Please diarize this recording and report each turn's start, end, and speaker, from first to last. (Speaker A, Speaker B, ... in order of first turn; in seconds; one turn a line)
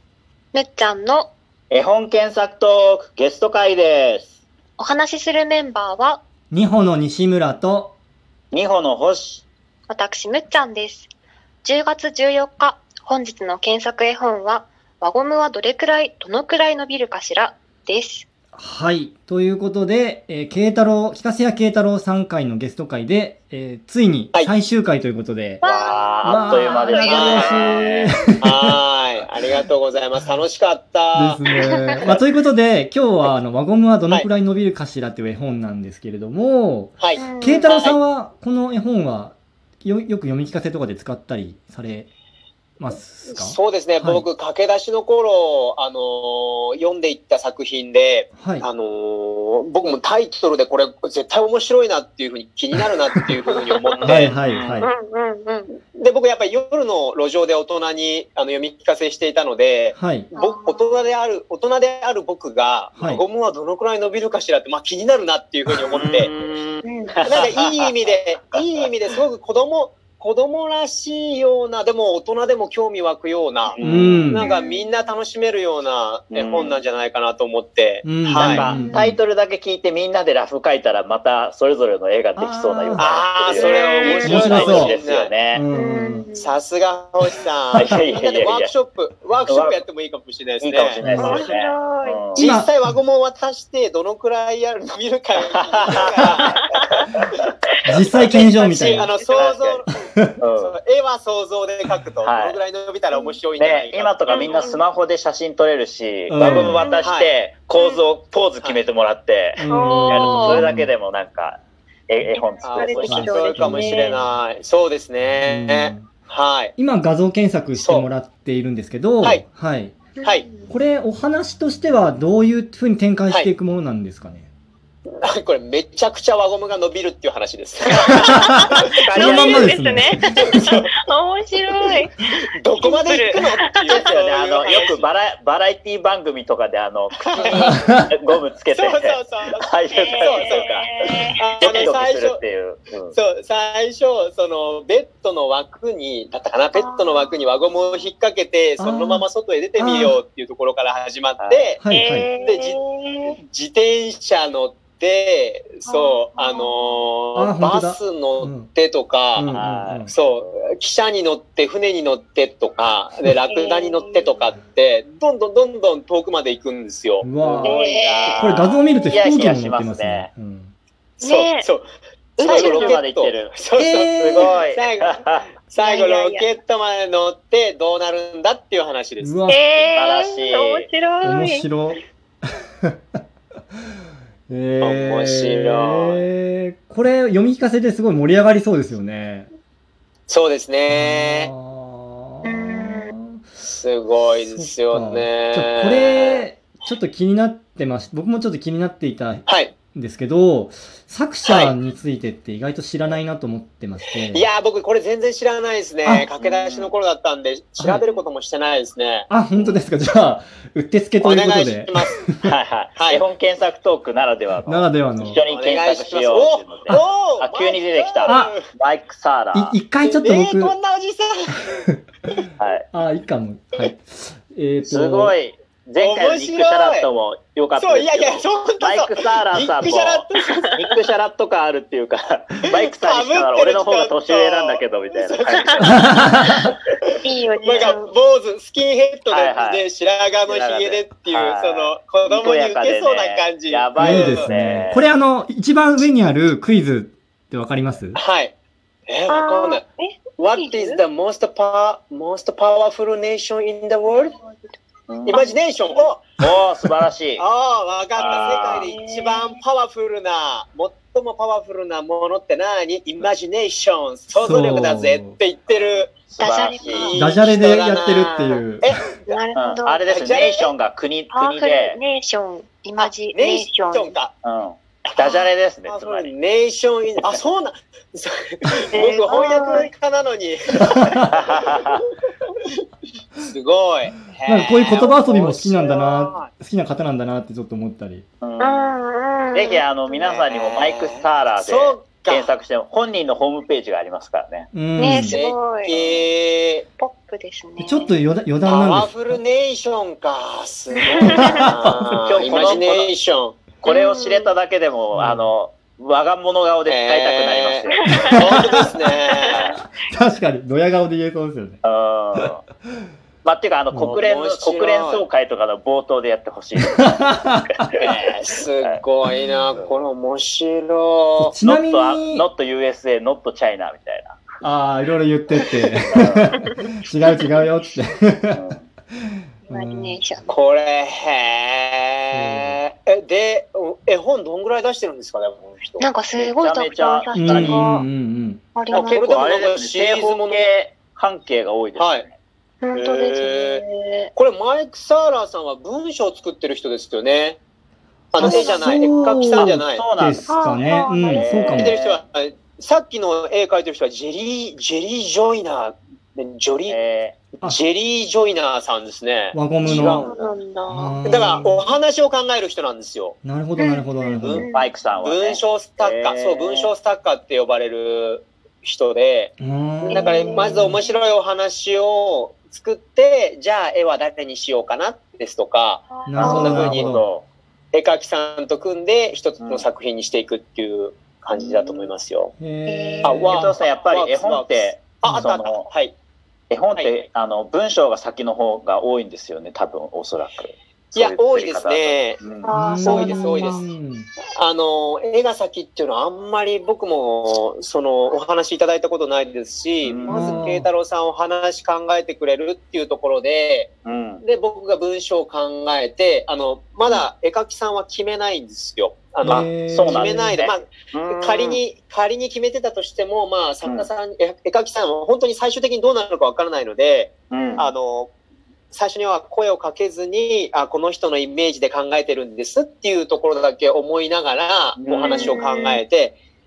Speaker A: 0.5-1.3
Speaker B: 1.7-4.3
Speaker A: 4.8-6.2
Speaker C: 6.5-7.9
Speaker B: 8.5-9.4
Speaker A: 9.9-11.1
Speaker A: 11.6-18.2
Speaker C: 18.5-25.6
Speaker A: 25.6-27.8
Speaker B: 25.6-28.2
Speaker C: 26.2-28.8
Speaker D: 27.0-27.7
Speaker D: 28.4-31.4
Speaker C: 31.1-42.1
Speaker D: 37.0-38.0
Speaker A: 37.2-37.7
Speaker C: 42.8-44.2
Speaker D: 43.3-54.3
Speaker C: 48.4-48.7
Speaker C: 52.8-53.3
Speaker B: 53.9-54.9
Speaker C: 54.0-54.9
Speaker A: 54.8-55.7
Speaker D: 55.9-66.3
Speaker C: 60.0-60.3
Speaker A: 60.3-60.9
Speaker B: 65.7-67.6
Speaker A: 66.8-67.2
Speaker D: 67.2-73.8
Speaker B: 73.7-74.3
Speaker C: 73.8-74.5
Speaker D: 74.3-78.8
Speaker A: 74.3-74.9
Speaker B: 76.3-76.7
Speaker C: 78.0-79.2
Speaker B: 78.3-85.6
Speaker A: 78.6-79.1
Speaker C: 82.3-83.2
Speaker D: 83.0-85.3
Speaker A: 83.5-84.9
Speaker C: 84.2-84.9
Speaker C: 85.5-86.3
Speaker A: 85.7-86.5
Speaker D: 86.4-91.4
Speaker B: 87.8-88.7
Speaker B: 89.5-89.8
Speaker B: 90.6-92.5
Speaker C: 91.0-91.4
Speaker A: 91.1-92.2
Speaker D: 92.3-96.6
Speaker C: 92.4-92.9
Speaker B: 95.6-96.6
Speaker C: 97.8-99.1
Speaker D: 98.3-99.9
Speaker A: 98.8-99.5
Speaker B: 99.3-99.8
Speaker C: 100.1-100.3
Speaker B: 100.4-100.7
Speaker D: 100.6-104.7
Speaker B: 102.2-102.6
Speaker B: 103.6-113.3
Speaker A: 104.3-104.8
Speaker C: 106.3-106.8
Speaker A: 106.4-107.1
Speaker D: 107.0-107.3
Speaker A: 107.7-108.0
Speaker C: 109.5-110.9
Speaker A: 109.7-110.7
Speaker A: 112.3-114.3
Speaker D: 112.6-116.7
Speaker C: 113.0-113.9
Speaker C: 115.3-116.1
Speaker C: 116.8-120.0
Speaker D: 117.8-118.1
Speaker A: 120.2-120.7
Speaker C: 120.7-124.5
Speaker D: 125.1-129.7
Speaker C: 128.3-128.5
Speaker A: 129.1-134.0
Speaker B: 129.1-129.7
Speaker C: 129.1-130.6
Speaker D: 132.6-135.1
Speaker B: 133.8-143.1
Speaker D: 137.2-137.8
Speaker A: 137.3-137.8
Speaker C: 137.6-138.1
Speaker D: 138.7-140.7
Speaker A: 139.9-141.9
Speaker D: 141.4-142.4
Speaker D: 143.1-151.8
Speaker A: 146.7-147.4
Speaker C: 148.8-149.2
Speaker C: 149.8-150.2
Speaker B: 151.4-151.7
Speaker C: 151.8-152.3
Speaker A: 151.8-153.3
Speaker D: 152.4-152.8
Speaker D: 153.3-159.6
Speaker A: 155.8-156.7
Speaker C: 157.3-158.7
Speaker C: 159.3-160.1
Speaker B: 159.5-160.1
Speaker D: 160.1-168.0
Speaker A: 163.4-164.4
Speaker C: 167.2-170.7
Speaker B: 167.4-170.3
Speaker A: 167.6-168.4
Speaker A: 171.2-171.7
Speaker D: 171.2-171.8
Speaker A: 172.4-173.0
Speaker D: 172.4-179.3
Speaker B: 172.4-173.6
Speaker C: 173.8-174.5
Speaker B: 174.2-175.5
Speaker A: 175.8-176.5
Speaker C: 179.2-179.9
Speaker A: 179.5-181.7
Speaker B: 179.9-180.9
Speaker C: 181.2-182.0
Speaker C: 182.8-183.2
Speaker C: 184.5-189.5
Speaker D: 184.8-186.2
Speaker D: 190.3-191.5
Speaker C: 190.9-193.4
Speaker A: 192.4-193.1
Speaker D: 193.6-196.4
Speaker C: 194.2-204.4
Speaker D: 199.4-199.7
Speaker D: 201.4-201.7
Speaker D: 204.3-209.3
Speaker B: 206.4-206.9
Speaker C: 209.3-212.5
Speaker D: 211.2-212.2
Speaker B: 212.4-219.8
Speaker D: 213.0-213.2
Speaker C: 214.7-215.4
Speaker D: 215.5-218.6
Speaker C: 218.2-218.5
Speaker C: 219.5-220.7
Speaker D: 220.0-221.6
Speaker B: 222.6-222.8
Speaker C: 222.9-225.3
Speaker B: 224.9-236.2
Speaker D: 226.0-227.1
Speaker D: 227.8-230.8
Speaker D: 232.8-236.2
Speaker C: 235.8-236.7
Speaker A: 237.2-238.1
Speaker D: 237.6-244.5
Speaker B: 239.3-239.8
Speaker B: 240.5-245.0
Speaker C: 244.0-248.2
Speaker D: 248.1-248.5
Speaker D: 249.1-249.8
Speaker A: 249.3-251.0
Speaker D: 250.4-254.3
Speaker B: 255.1-255.5
Speaker D: 255.2-256.4
Speaker B: 256.4-257.4
Speaker D: 257.4-266.2
Speaker B: 258.1-258.9
Speaker A: 258.2-259.6
Speaker C: 264.4-265.3
Speaker B: 265.7-267.1
Speaker A: 266.4-267.1
Speaker D: 266.9-269.4
Speaker C: 267.1-268.9
Speaker A: 269.3-270.0
Speaker B: 269.5-272.0
Speaker D: 270.1-270.7
Speaker A: 271.3-274.1
Speaker D: 273.0-274.3
Speaker B: 274.4-276.3
Speaker D: 275.1-282.0
Speaker A: 278.9-279.9
Speaker B: 281.4-282.0
Speaker D: 283.4-286.5
Speaker C: 284.4-288.2
Speaker B: 288.4-288.9
Speaker A: 288.6-289.8
Speaker B: 289.5-294.7
Speaker D: 290.1-292.5
Speaker C: 294.7-295.4
Speaker A: 295.0-295.9
Speaker D: 295.3-296.9
Speaker B: 295.9-296.3
Speaker A: 297.0-298.1
Speaker C: 297.8-299.4
Speaker D: 298.6-303.6
Speaker A: 301.1-301.6
Speaker C: 301.3-302.2
Speaker B: 301.7-303.1
Speaker B: 303.8-308.8
Speaker A: 303.8-304.5
Speaker C: 305.1-305.5
Speaker D: 306.9-309.7
Speaker A: 308.1-308.8
Speaker C: 308.2-309.0
Speaker B: 309.5-309.8
Speaker C: 310.0-311.8
Speaker B: 311.8-312.6
Speaker B: 313.4-319.0
Speaker C: 313.9-314.2
Speaker D: 314.1-315.2
Speaker C: 317.0-317.7
Speaker D: 318.0-321.5
Speaker C: 321.4-322.4
Speaker B: 321.6-324.4
Speaker C: 324.6-328.6
Speaker B: 326.1-326.6
Speaker B: 328.5-328.8
Speaker C: 329.7-330.2
Speaker A: 329.7-330.4
Speaker D: 330.5-336.1
Speaker C: 332.3-332.8
Speaker A: 336.0-338.1
Speaker B: 336.4-337.8
Speaker C: 337.4-338.6
Speaker A: 338.7-339.4
Speaker D: 338.9-340.6
Speaker B: 338.9-342.3
Speaker D: 341.9-342.2
Speaker A: 342.8-344.3
Speaker D: 342.9-343.8
Speaker D: 344.4-347.6
Speaker D: 348.3-350.0
Speaker C: 348.4-351.9
Speaker A: 348.4-349.4
Speaker B: 349.5-350.4
Speaker A: 350.5-351.6
Speaker B: 351.3-352.2
Speaker D: 351.5-357.0
Speaker B: 356.9-357.4
Speaker D: 357.6-360.5
Speaker C: 359.5-360.3
Speaker A: 359.9-361.6
Speaker C: 360.9-361.9
Speaker D: 361.2-363.4
Speaker C: 363.4-364.7
Speaker A: 363.8-364.9
Speaker D: 364.4-364.7
Speaker B: 364.7-366.9
Speaker D: 365.2-369.5
Speaker C: 369.6-371.0
Speaker A: 370.0-371.0
Speaker D: 370.1-377.1
Speaker A: 376.1-376.8
Speaker C: 376.3-377.3
Speaker B: 376.3-377.4
Speaker D: 377.9-382.5
Speaker B: 379.6-379.9
Speaker B: 381.5-382.1
Speaker C: 382.6-383.7
Speaker A: 382.9-383.5
Speaker D: 383.2-386.1
Speaker B: 383.4-385.9
Speaker B: 386.7-392.7
Speaker D: 391.1-392.4
Speaker A: 392.6-393.8
Speaker C: 392.7-394.3
Speaker D: 393.0-393.9
Speaker D: 394.6-403.9
Speaker B: 400.0-400.7
Speaker C: 400.3-400.9
Speaker B: 404.0-404.4
Speaker D: 404.4-418.3
Speaker C: 409.4-410.5
Speaker B: 409.4-411.8
Speaker B: 417.5-417.9
Speaker D: 418.9-426.3
Speaker B: 425.0-425.6
Speaker A: 425.3-426.0